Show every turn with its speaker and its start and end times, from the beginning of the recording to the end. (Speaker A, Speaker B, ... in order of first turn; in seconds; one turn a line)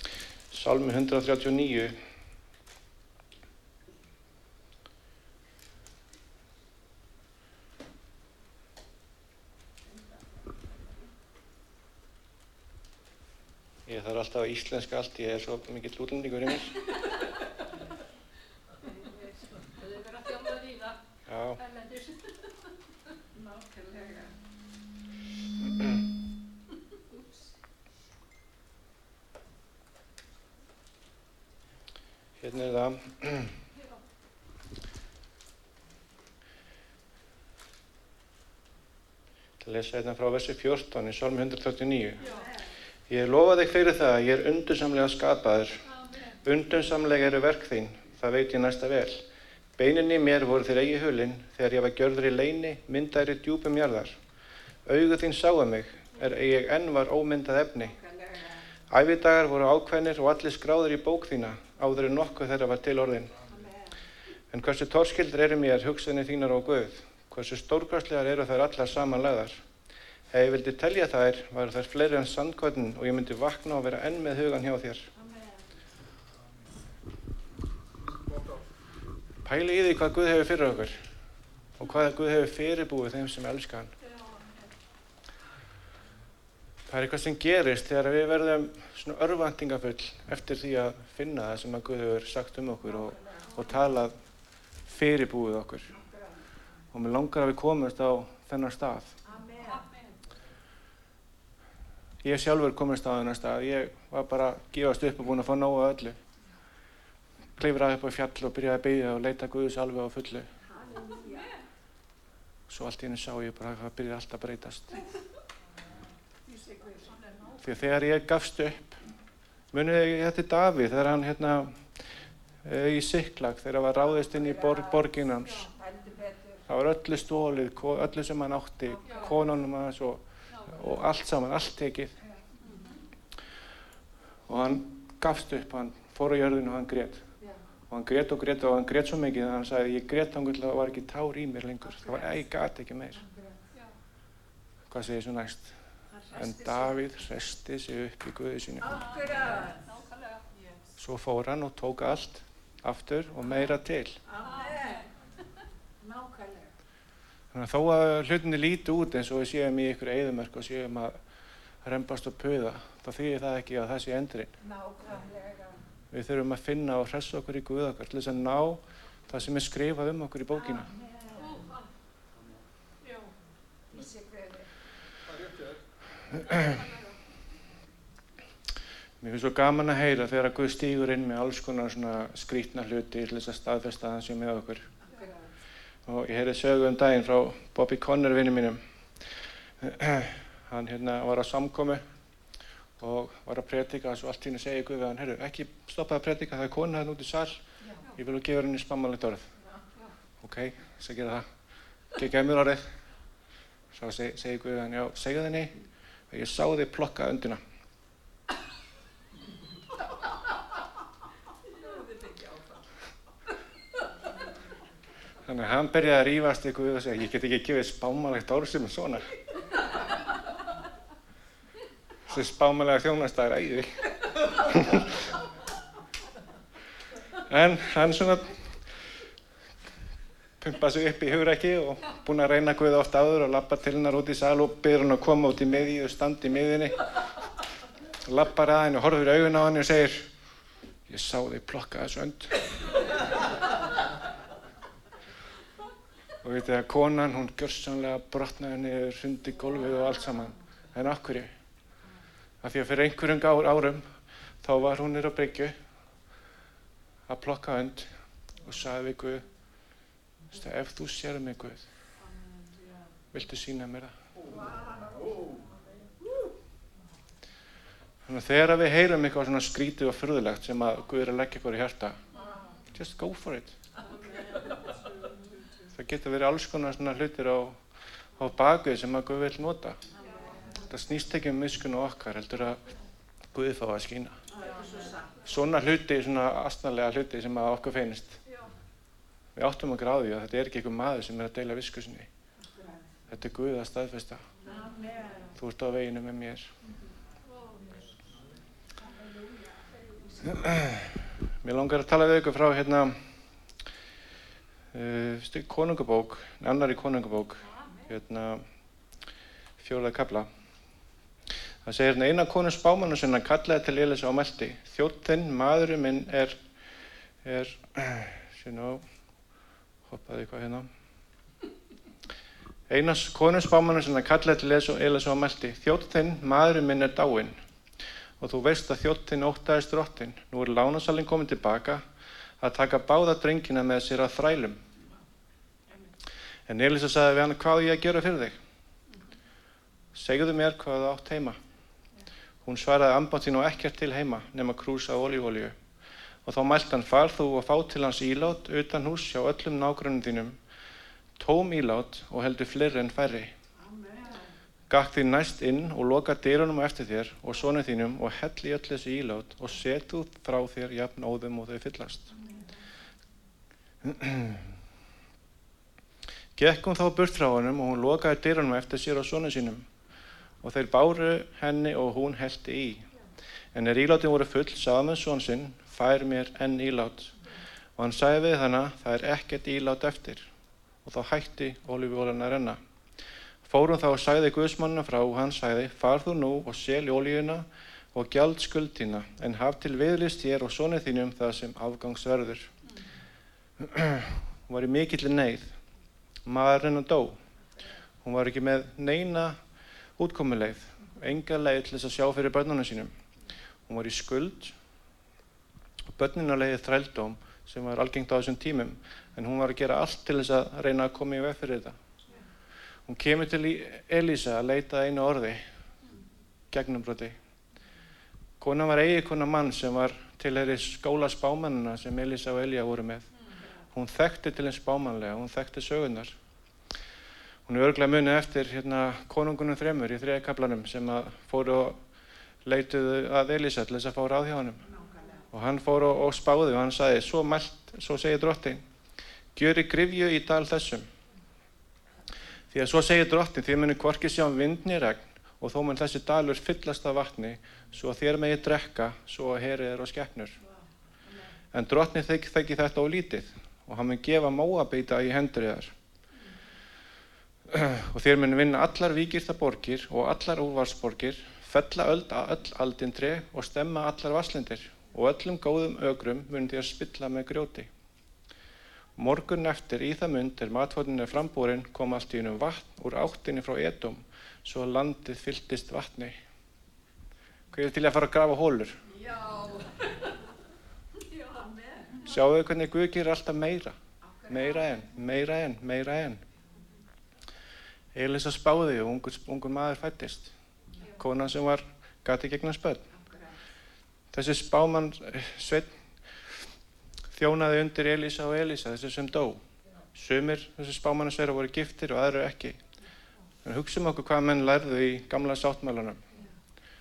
Speaker A: 0.5-2.0
Speaker B: 9.9-10.6
Speaker A: 13.9-16.8
Speaker C: 18.8-21.0
Speaker A: 21.3-21.6
Speaker C: 21.6-22.7
Speaker B: 23.3-24.4
Speaker A: 32.4-33.5
Speaker C: 33.7-34.0
Speaker A: 39.6-42.2
Speaker C: 42.2-42.5
Speaker B: 42.2-42.7
Speaker A: 43.1-45.8
Speaker C: 45.8-46.4
Speaker A: 46.4-49.2
Speaker A: 49.8-54.2
Speaker A: 54.9-58.0
Speaker B: 57.8-58.6
Speaker A: 58.9-63.4
Speaker B: 63.5-64.0
Speaker A: 64.5-69.6
Speaker A: 70.3-75.1
Speaker B: 75.1-75.7
Speaker A: 79.4-81.0
Speaker A: 81.8-83.9
Speaker C: 84.0-84.7
Speaker A: 86.9-94.1
Speaker B: 92.9-93.5
Speaker C: 93.5-93.8
Speaker A: 94.9-95.9
Speaker B: 95.9-96.6
Speaker A: 96.9-99.2
Speaker B: 99.2-99.8
Speaker C: 99.6-100.2
Speaker A: 102.2-106.2
Speaker A: 107.6-110.5
Speaker B: 110.6-111.5
Speaker C: 111.2-111.6
Speaker A: 112.7-115.0
Speaker B: 116.5-117.1
Speaker C: 117.0-117.9
Speaker A: 117.6-119.0
Speaker A: 119.7-121.9
Speaker A: 122.6-125.7
Speaker B: 124.2-125.2
Speaker B: 125.8-126.7
Speaker A: 126.7-132.2
Speaker B: 128.9-129.3
Speaker C: 129.0-129.4
Speaker C: 130.5-130.9
Speaker B: 132.2-132.7
Speaker C: 132.6-133.0
Speaker A: 134.5-137.2
Speaker A: 137.9-143.2
Speaker B: 141.9-142.4
Speaker B: 143.1-143.6
Speaker A: 144.9-145.8
Speaker B: 146.1-147.0
Speaker A: 146.3-149.0
Speaker B: 148.8-149.9
Speaker C: 148.9-150.5
Speaker A: 151.0-154.2
Speaker B: 154.2-155.1
Speaker C: 154.4-155.0
Speaker B: 156.0-156.7
Speaker A: 157.5-161.2
Speaker A: 161.8-164.6
Speaker B: 164.6-165.8
Speaker A: 166.1-170.9
Speaker B: 170.7-171.6
Speaker C: 171.3-171.9
Speaker C: 173.0-173.3
Speaker B: 173.9-174.8
Speaker C: 176.4-177.2
Speaker A: 179.2-184.9
Speaker B: 185.0-185.5
Speaker A: 186.1-192.0
Speaker A: 193.0-197.6
Speaker A: 198.1-199.5
Speaker A: 200.4-201.5
Speaker A: 202.1-202.9
Speaker A: 203.9-205.8
Speaker A: 206.3-207.6
Speaker B: 211.7-212.8
Speaker A: 215.4-219.3
Speaker A: 222.2-225.2
Speaker A: 227.3-228.6
Speaker A: 230.6-237.1
Speaker A: 238.2-240.3
Speaker A: 241.1-242.6
Speaker A: 246.4-251.5
Speaker A: 252.6-254.1
Speaker A: 254.6-255.7
Speaker A: 257.3-258.1
Speaker A: 258.6-259.5
Speaker A: 260.5-261.9
Speaker A: 263.3-264.1
Speaker B: 264.4-266.0
Speaker A: 268.3-272.2
Speaker B: 272.4-272.8
Speaker C: 272.4-272.7
Speaker A: 272.9-273.8
Speaker C: 274.0-275.9
Speaker B: 274.1-274.9
Speaker A: 275.9-277.8
Speaker A: 278.4-280.0
Speaker B: 280.1-280.8
Speaker C: 280.2-280.8
Speaker A: 280.8-282.9
Speaker A: 283.5-284.4
Speaker B: 284.5-285.4
Speaker C: 284.5-285.3
Speaker A: 285.4-288.4
Speaker C: 288.5-288.7
Speaker A: 289.6-292.3
Speaker B: 292.6-293.1
Speaker A: 293.3-294.5
Speaker B: 294.6-295.5
Speaker A: 295.6-296.7
Speaker C: 297.4-298.1
Speaker B: 298.9-299.9
Speaker A: 300.4-303.2
Speaker A: 304.9-308.7
Speaker C: 307.7-308.1
Speaker A: 309.8-310.5
Speaker A: 311.9-316.6
Speaker A: 317.4-319.0
Speaker A: 320.1-320.9
Speaker A: 322.9-327.6
Speaker A: 328.4-332.0
Speaker A: 332.6-334.8
Speaker A: 336.7-338.6
Speaker A: 340.1-341.6
Speaker A: 342.6-345.8
Speaker A: 346.5-350.6
Speaker A: 351.4-353.5
Speaker B: 353.8-354.5
Speaker A: 354.9-362.4
Speaker B: 362.3-362.7
Speaker A: 364.0-364.8
Speaker A: 366.6-369.9
Speaker A: 370.6-373.1
Speaker A: 373.7-377.4
Speaker A: 378.0-380.5
Speaker A: 381.0-382.8
Speaker A: 383.6-392.7
Speaker A: 393.8-395.8
Speaker A: 396.5-397.4
Speaker A: 398.2-399.6
Speaker A: 400.2-403.1
Speaker A: 403.9-404.8
Speaker A: 406.1-412.0
Speaker A: 413.1-415.7
Speaker A: 416.7-417.4
Speaker A: 418.6-423.3
Speaker A: 423.9-426.3
Speaker A: 427.7-432.0
Speaker A: 432.6-434.9
Speaker B: 434.8-435.5
Speaker A: 435.5-438.9
Speaker A: 439.6-441.1
Speaker A: 442.7-450.6
Speaker A: 451.7-455.9
Speaker A: 457.7-467.9
Speaker A: 469.2-476.4
Speaker A: 477.7-479.0
Speaker B: 479.1-480.3
Speaker C: 481.3-481.7
Speaker B: 481.5-482.3
Speaker A: 482.2-484.0
Speaker B: 484.2-485.1
Speaker A: 484.5-486.4
Speaker A: 488.1-490.5
Speaker A: 491.1-493.1
Speaker B: 493.1-493.6
Speaker A: 494.3-496.5
Speaker A: 497.3-499.6
Speaker A: 500.1-502.8
Speaker A: 503.6-506.2